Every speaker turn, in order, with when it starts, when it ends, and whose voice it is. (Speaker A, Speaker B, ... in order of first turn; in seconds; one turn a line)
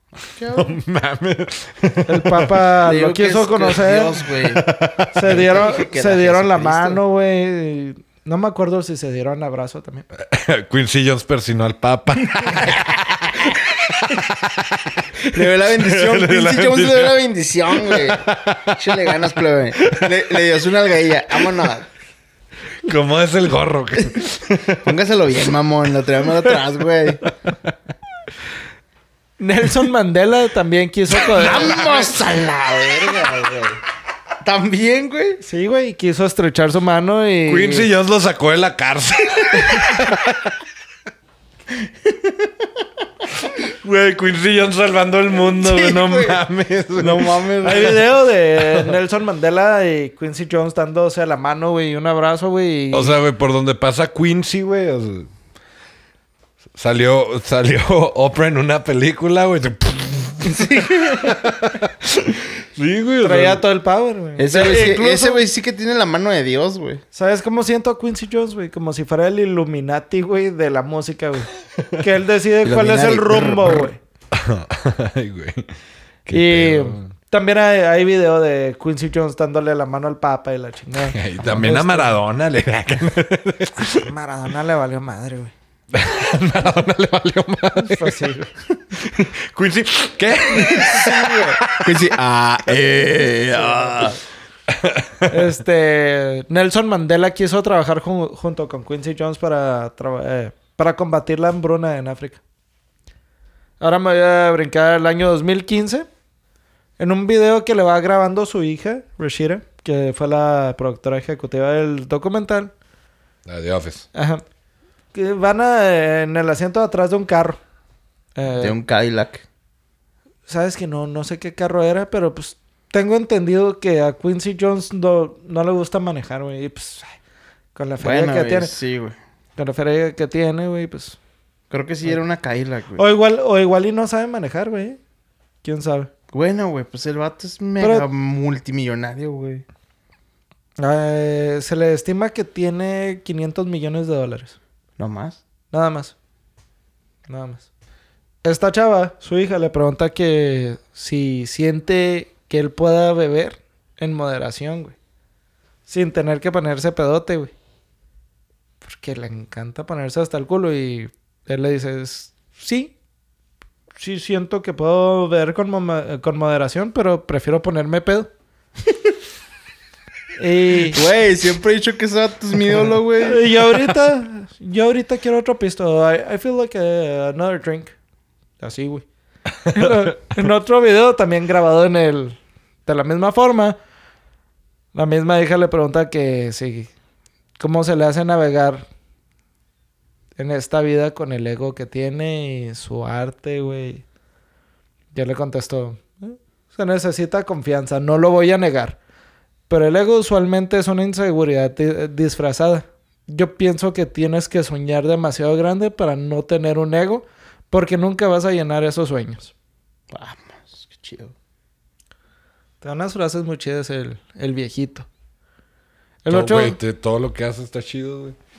Speaker A: 0.1-0.7
Speaker B: 0.5-2.5
Speaker C: 2.1-4.2
Speaker A: 2.8-4.7
Speaker B: 4.4-5.5
Speaker C: 5.1-10.1
Speaker A: 5.2-7.0
Speaker B: 10.1-19.1
Speaker A: 15.3-21.9
Speaker B: 19.8-20.2
Speaker B: 22.8-24.9
Speaker A: 24.8-27.2
Speaker C: 29.4-31.9
Speaker A: 31.2-33.8
Speaker B: 31.4-32.0
Speaker A: 34.4-35.4
Speaker C: 35.4-37.9
Speaker B: 37.5-40.6
Speaker B: 43.4-48.0
Speaker A: 45.4-46.4
Speaker A: 46.9-48.0
Speaker C: 47.6-53.1
Speaker B: 48.6-49.0
Speaker B: 52.9-55.3
Speaker B: 56.8-63.6
Speaker A: 60.5-61.3
Speaker C: 63.2-65.4
Speaker A: 64.4-67.0
Speaker C: 67.1-74.0
Speaker A: 72.6-73.9
Speaker B: 74.3-75.7
Speaker B: 76.3-77.1
Speaker C: 76.3-82.2
Speaker B: 81.0-84.1
Speaker C: 83.9-85.5
Speaker B: 85.9-88.3
Speaker C: 87.8-88.5
Speaker B: 89.0-92.1
Speaker A: 90.6-94.2
Speaker C: 91.1-91.6
Speaker C: 93.5-94.2
Speaker B: 94.7-95.5
Speaker C: 95.3-102.4
Speaker C: 103.8-106.1
Speaker C: 107.0-112.7
Speaker B: 113.5-114.1
Speaker C: 114.1-114.4
Speaker C: 115.1-117.6
Speaker C: 118.4-118.8
Speaker A: 118.6-119.4
Speaker C: 120.5-127.1
Speaker C: 127.8-128.7
Speaker A: 128.0-129.2
Speaker C: 129.6-131.2
Speaker A: 131.7-133.0
Speaker C: 133.0-135.0
Speaker C: 135.6-136.1
Speaker A: 136.3-139.6
Speaker C: 137.8-138.1
Speaker C: 140.8-144.6
Speaker A: 145.0-145.4
Speaker C: 145.7-146.1
Speaker C: 147.3-147.7
Speaker C: 148.4-154.9
Speaker C: 155.9-157.5
Speaker C: 158.8-162.9
Speaker C: 164.0-168.3
Speaker C: 170.4-171.0
Speaker A: 170.9-173.5
Speaker C: 173.2-177.9
Speaker C: 178.6-179.1
Speaker C: 179.7-183.8
Speaker C: 184.9-186.9
Speaker C: 187.6-188.9
Speaker C: 190.4-194.0
Speaker C: 195.1-199.0
Speaker C: 199.7-209.5
Speaker A: 210.1-211.3
Speaker C: 212.8-215.1
Speaker C: 216.2-216.8
Speaker B: 216.3-218.4